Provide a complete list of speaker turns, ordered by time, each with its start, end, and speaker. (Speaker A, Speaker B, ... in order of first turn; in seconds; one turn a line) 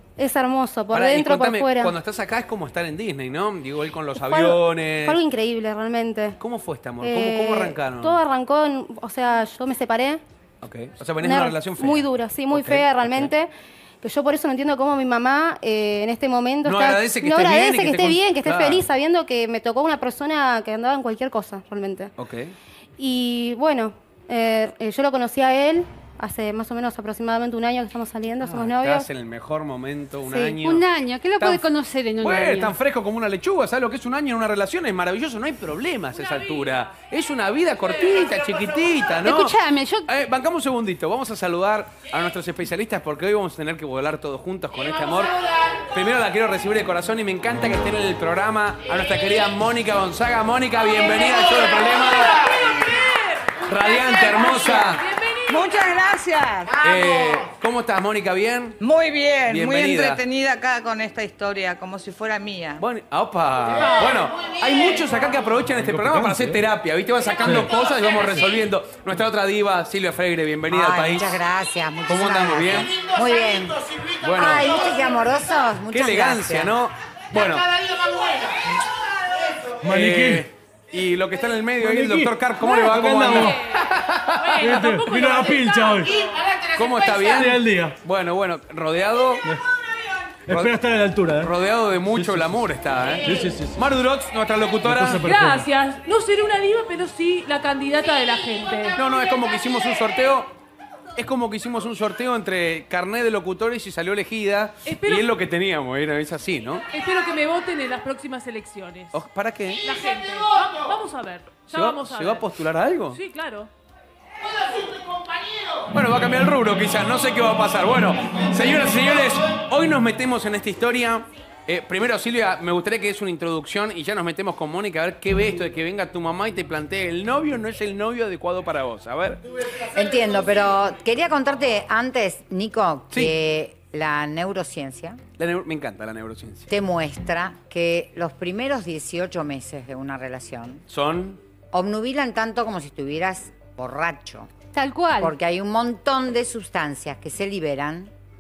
Speaker A: 0.2-1.9
Speaker B: 0.9-5.2
Speaker A: 4.2-6.4
Speaker B: 6.4-8.2
Speaker A: 7.0-10.2
Speaker B: 10.6-13.3
Speaker A: 11.2-13.5
Speaker A: 14.0-22.1
Speaker B: 16.6-18.8
Speaker B: 22.2-22.5
Speaker A: 23.0-29.1
Speaker B: 28.4-30.8
Speaker C: 30.3-32.8
Speaker B: 31.4-31.6
Speaker B: 32.2-39.5
Speaker C: 39.2-40.1
Speaker B: 40.1-52.5
Speaker D: 52.5-55.9
Speaker B: 53.6-55.0
Speaker E: 55.5-56.7
Speaker B: 56.8-58.8
Speaker E: 58.8-62.8
Speaker B: 59.5-60.2
Speaker B: 62.8-71.4
Speaker D: 63.8-64.2
Speaker F: 65.7-66.6
Speaker F: 67.4-67.7
Speaker G: 70.7-76.7
Speaker B: 72.1-72.9
Speaker B: 74.2-74.7
Speaker B: 75.9-77.8
Speaker F: 79.8-80.5
Speaker B: 79.8-84.7
Speaker F: 81.8-83.6
Speaker D: 82.6-83.5
Speaker D: 84.3-86.3
Speaker F: 84.6-86.2
Speaker B: 86.7-89.5
Speaker F: 87.2-88.0
Speaker F: 90.5-91.5
Speaker B: 90.5-90.8
Speaker B: 91.3-95.3
Speaker F: 92.1-92.6
Speaker F: 93.2-93.8
Speaker F: 94.8-95.7
Speaker D: 95.2-99.0
Speaker B: 98.9-100.5
Speaker B: 101.2-106.8
Speaker D: 104.8-105.3
Speaker D: 106.9-109.2
Speaker B: 109.1-109.8
Speaker D: 109.8-112.4
Speaker B: 111.7-113.2
Speaker D: 113.1-113.7
Speaker B: 115.9-129.4
Speaker G: 129.8-135.2
Speaker B: 135.4-136.7
Speaker G: 136.7-140.8
Speaker B: 140.9-141.4
Speaker G: 141.7-144.5
Speaker C: 144.7-145.3
Speaker G: 145.2-148.1